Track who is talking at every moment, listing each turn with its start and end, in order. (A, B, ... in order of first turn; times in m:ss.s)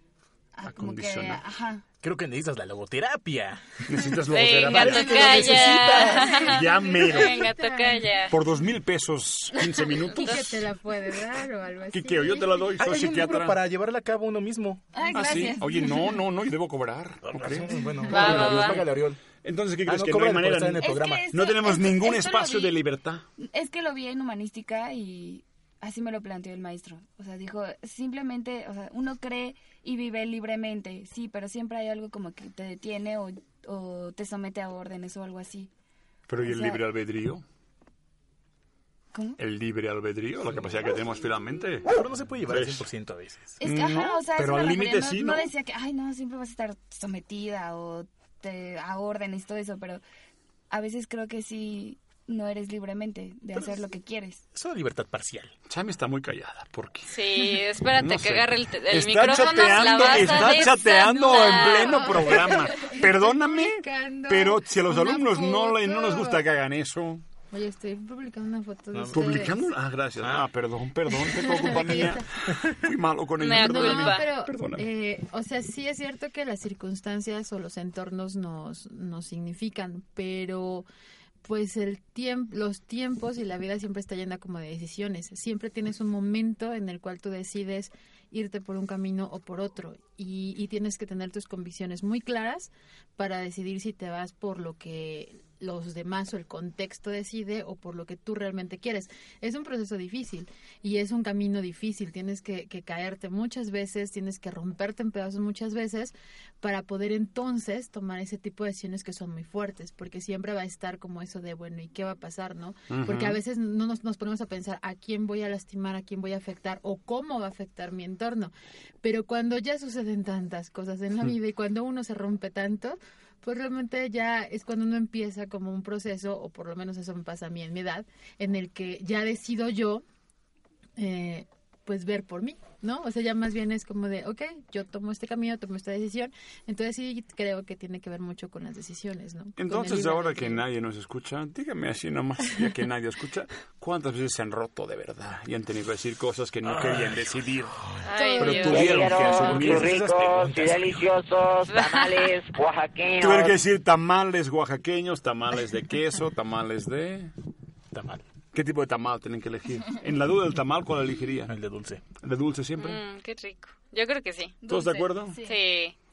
0:00.6-0:01.8 A
0:00.6-0:01.4 B
0:02.0-0:03.8 C
0:03.8-0:07.5 B
0:04.3-0:08.3 D
0:04.7-0:06.3 C
0:06.0-0:08.1 E
0:08.3-0:10.6 B
0:10.1-0:12.7 E
0:11.9-0:13.6 B
0:12.8-0:14.8 C
0:14.9-0:16.1 A
0:15.1-0:23.2 B
0:17.2-0:19.2 C
0:18.1-0:18.8 D
0:19.8-0:21.3 C
0:20.8-0:22.8 A
0:23.4-0:35.7 A
0:36.3-0:37.4 B
0:36.4-0:36.8 A
0:39.1-0:39.4 A
0:39.4-0:41.9 B
0:41.9-0:43.6 C
0:42.5-0:42.8 B
0:43.6-0:50.0 A
0:43.6-0:45.5 B
0:50.7-0:54.4 A
0:54.5-0:55.5 C
0:55.7-0:57.1 B
0:57.1-1:02.3 D
0:58.0-1:07.2 B
1:01.5-1:06.4 E
1:07.5-1:09.6 E
1:08.9-1:09.4 C
1:09.1-1:14.9 B
1:10.2-1:10.5 C
1:11.2-1:12.2 E
1:13.4-1:14.2 D
1:13.5-1:20.8 E
1:21.4-2:10.0 E
1:52.9-1:53.4 B
2:11.0-2:20.6 E
2:19.6-2:27.8 B
2:28.0-2:29.6 D
2:28.2-2:29.5 E
2:28.4-2:30.6 B
2:28.6-2:33.6 F
2:29.4-2:30.7 C
2:31.7-2:32.3 D
2:33.2-2:37.3 B
2:37.9-2:38.2 C
2:38.5-2:41.6 B
2:41.5-2:42.0 C
2:42.2-2:43.0 B
2:42.8-2:44.6 D
2:44.6-2:45.4 B
2:44.7-2:45.6 A
2:45.4-2:46.0 D